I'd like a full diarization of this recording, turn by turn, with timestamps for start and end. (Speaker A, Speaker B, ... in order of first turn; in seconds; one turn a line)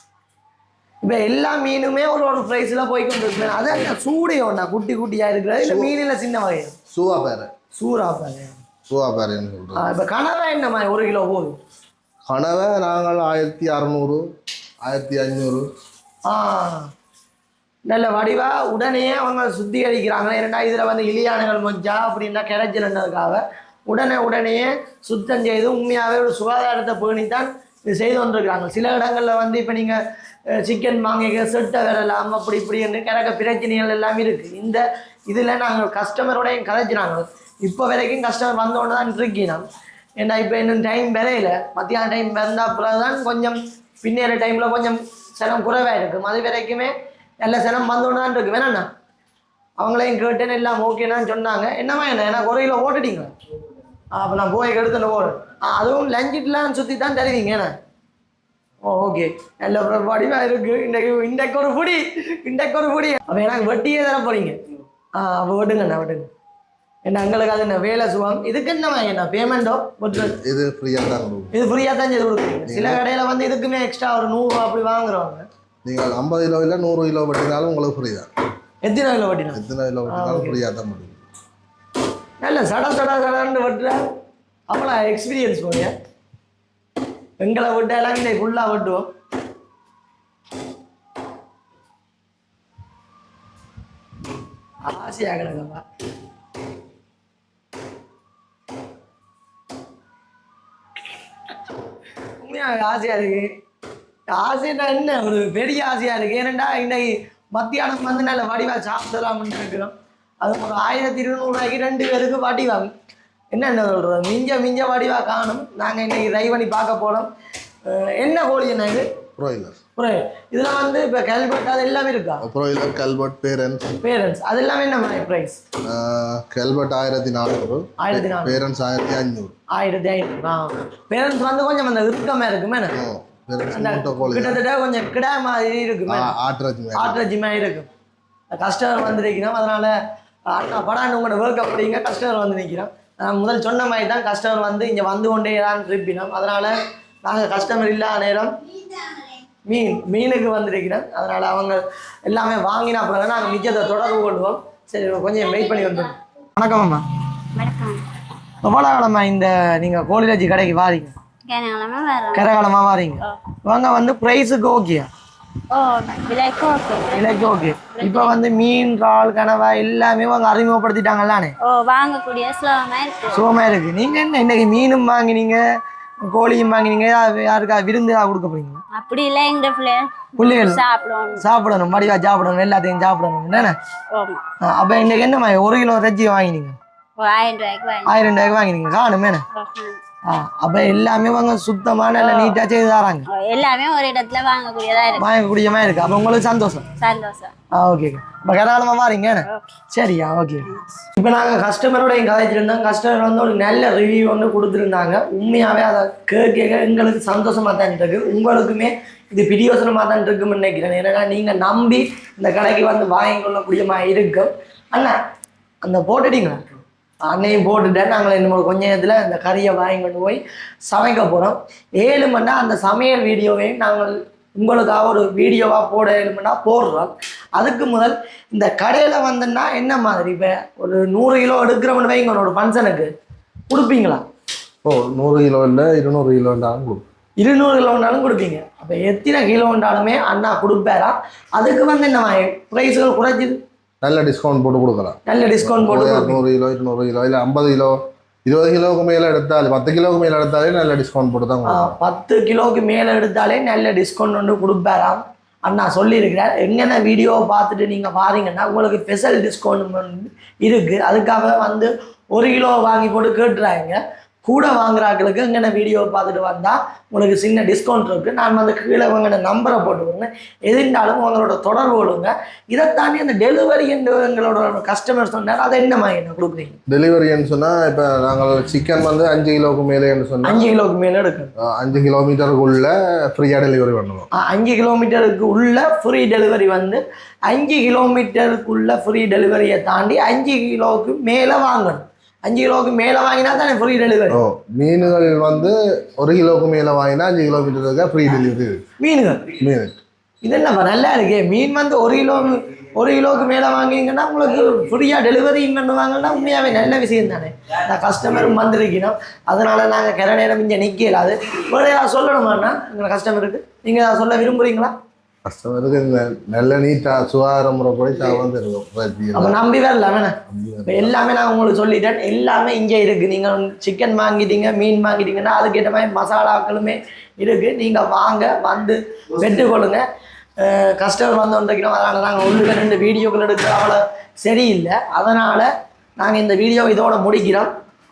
Speaker A: 1.0-6.7
Speaker B: 5.6-5.9
Speaker B: 6.9-7.5
Speaker A: 7.8-8.6
Speaker B: 8.9-9.9
Speaker A: 9.8-11.6
Speaker B: 12.3-14.2
Speaker B: 14.8-15.7
Speaker A: 16.3-16.9
Speaker A: 17.9-30.0
Speaker A: 30.6-39.6
Speaker A: 40.2-48.9
Speaker A: 49.8-53.3
Speaker A: 54.1-57.7
Speaker A: 58.8-64.6
Speaker A: 65.2-66.3
Speaker A: 67.1-70.3
Speaker B: 70.2-71.5
Speaker A: 71.5-75.4
Speaker B: 72.7-73.0
Speaker B: 75.8-78.3
Speaker A: 78.8-80.6
Speaker B: 79.5-81.2
Speaker A: 82.4-84.0
Speaker A: 84.7-85.9
Speaker A: 87.4-89.1
Speaker A: 94.9-95.8
Speaker A: 102.4-103.5
Speaker A: 104.3-112.9
Speaker A: 113.5-117.3
Speaker A: 117.9-119.0
Speaker B: 119.4-119.8
Speaker A: 120.0-122.4
Speaker B: 122.4-124.0
Speaker A: 124.0-125.6
Speaker B: 125.9-129.6
Speaker A: 128.0-128.6
Speaker A: 129.7-133.0
Speaker B: 132.9-134.6
Speaker A: 133.7-136.3
Speaker B: 136.1-137.2
Speaker A: 136.9-137.9
Speaker A: 138.6-139.9
Speaker A: 140.5-148.5
Speaker A: 149.7-157.0
Speaker C: 157.5-158.0
Speaker A: 158.6-161.1
Speaker C: 161.5-162.5
Speaker A: 162.3-165.1
Speaker C: 165.7-168.4
Speaker A: 167.1-171.5
Speaker C: 171.6-173.4
Speaker A: 173.3-175.6
Speaker A: 176.2-178.8
Speaker C: 178.9-181.4
Speaker A: 180.4-180.8
Speaker A: 181.4-183.8
Speaker C: 184.1-184.4
Speaker A: 184.6-186.8
Speaker C: 187.2-188.1
Speaker A: 188.1-189.4
Speaker C: 189.5-190.0
Speaker A: 190.3-193.2
Speaker C: 192.2-192.6
Speaker C: 193.3-195.2
Speaker A: 195.2-196.9
Speaker C: 197.0-197.5
Speaker A: 197.8-215.1
Speaker A: 215.8-233.1
Speaker A: 233.7-234.2
Speaker B: 234.8-237.0
Speaker A: 237.4-243.6
Speaker B: 244.0-252.0
Speaker A: 245.2-246.4
Speaker A: 251.7-276.8
Speaker B: 276.9-280.6
Speaker A: 280.4-281.5
Speaker B: 281.6-284.3
Speaker A: 284.4-294.4
Speaker B: 294.3-298.8
Speaker A: 299.0-299.5
Speaker B: 299.5-300.0
Speaker A: 300.4-314.9
Speaker B: 315.5-319.6
Speaker A: 319.4-330.0
Speaker B: 320.5-321.1
Speaker A: 330.6-337.7